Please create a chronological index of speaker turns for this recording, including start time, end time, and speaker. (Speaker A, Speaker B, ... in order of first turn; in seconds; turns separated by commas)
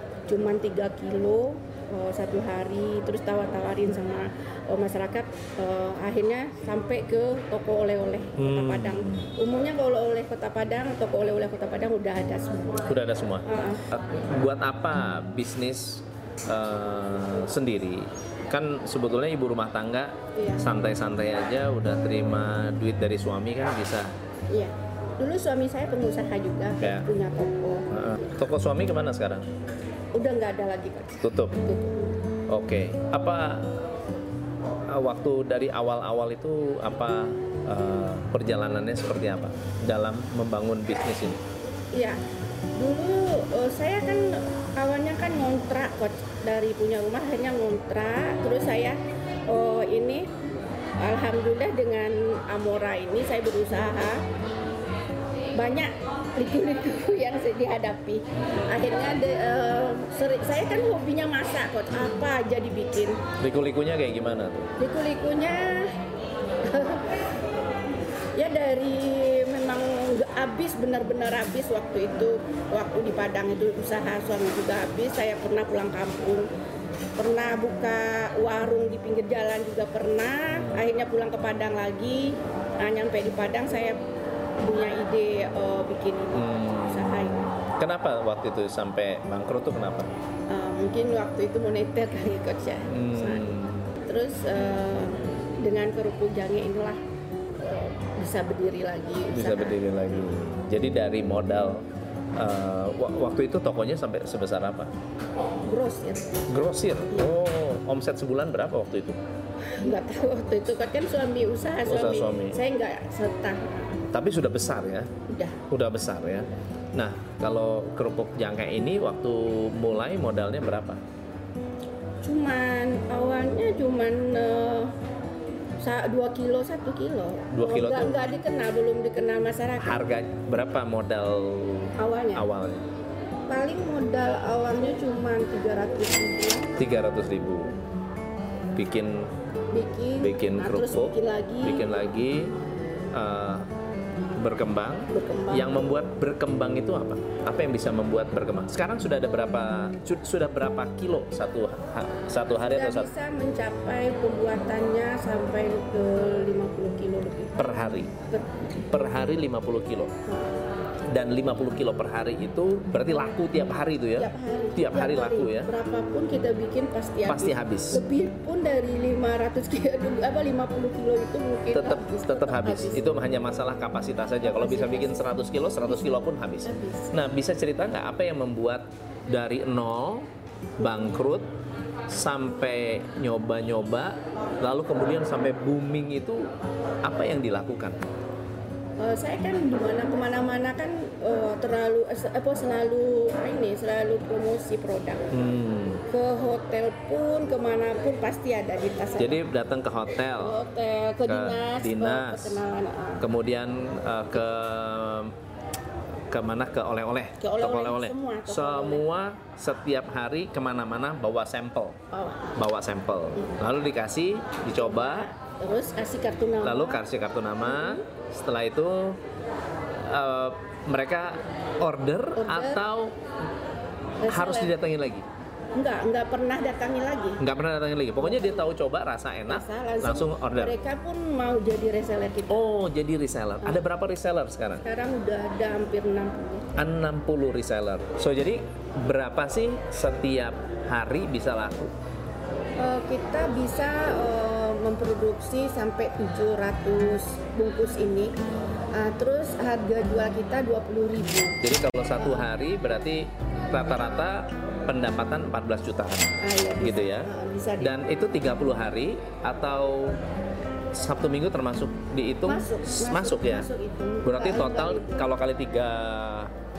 Speaker A: 0.3-12.9, Speaker B: 8.4-9.3, Speaker B: 12.9-24.1, Speaker A: 13.5-13.8, Speaker A: 20.3-20.6, Speaker A: 24.5-27.8, Speaker B: 26.8-27.1, Speaker B: 27.9-29.5, Speaker A: 30.1-32.2, Speaker B: 31.2-31.6, Speaker B: 32.5-33.8, Speaker B: 34.9-41.4, Speaker A: 41.9-42.2, Speaker A: 42.8-50.3, Speaker A: 51.0-54.2, Speaker A: 55.5-63.2, Speaker B: 63.4-64.7, Speaker A: 64.8-65.9, Speaker A: 66.6-67.2, Speaker A: 68.3-76.5, Speaker A: 77.2-84.0, Speaker B: 80.5-80.8, Speaker A: 84.6-87.4, Speaker B: 86.3-90.1, Speaker A: 90.5-97.0, Speaker B: 92.9-94.0, Speaker A: 97.6-100.3, Speaker B: 99.3-101.8, Speaker B: 102.3-104.9, Speaker A: 105.7-106.4, Speaker B: 106.5-109.2, Speaker A: 109.7-114.0, Speaker B: 111.8-112.6, Speaker B: 114.1-115.1, Speaker A: 115.3-115.6, Speaker B: 115.7-121.0, Speaker A: 122.2-124.9, Speaker A: 125.8-130.0, Speaker B: 127.5-128.2, Speaker B: 129.8-132.9, Speaker A: 132.0-132.4, Speaker A: 133.5-136.7, Speaker B: 136.8-137.7, Speaker B: 138.8-139.3, Speaker A: 139.7-141.9, Speaker B: 140.2-142.5, Speaker B: 143.1-143.7, Speaker B: 144.4-153.1, Speaker A: 145.1-145.8, Speaker A: 152.6-157.5, Speaker B: 157.6-158.1, Speaker A: 158.3-158.6, Speaker B: 158.9-160.1, Speaker A: 160.2-160.5, Speaker B: 161.1-165.7, Speaker A: 164.2-173.2, Speaker B: 167.2-168.0, Speaker B: 171.7-180.3, Speaker A: 174.4-175.3, Speaker A: 175.8-177.1, Speaker B: 180.8-181.4, Speaker B: 182.1-186.5, Speaker B: 187.0-188.0, Speaker A: 189.0-195.3, Speaker B: 195.3-196.0, Speaker A: 196.1-199.4, Speaker B: 199.2-200.6, Speaker A: 200.4-203.2, Speaker B: 201.3-202.6, Speaker B: 203.2-205.3, Speaker B: 206.3-212.0, Speaker A: 207.4-209.0, Speaker A: 212.1-212.6, Speaker B: 212.6-215.3, Speaker A: 214.7-217.0, Speaker B: 216.6-219.2, Speaker A: 217.6-218.0, Speaker B: 220.0-223.2, Speaker A: 222.4-222.8, Speaker A: 224.2-224.7, Speaker B: 224.3-225.2, Speaker A: 225.8-227.4, Speaker B: 227.4-230.7, Speaker A: 228.2-228.7, Speaker A: 229.5-232.6, Speaker B: 232.5-234.8, Speaker A: 234.8-236.7, Speaker B: 236.7-241.9, Speaker A: 242.8-248.3, Speaker A: 248.9-251.6, Speaker B: 251.6-260.2, Speaker A: 252.2-252.5, Speaker A: 256.4-257.9, Speaker B: 260.9-263.7, Speaker A: 262.4-265.3, Speaker B: 264.2-266.5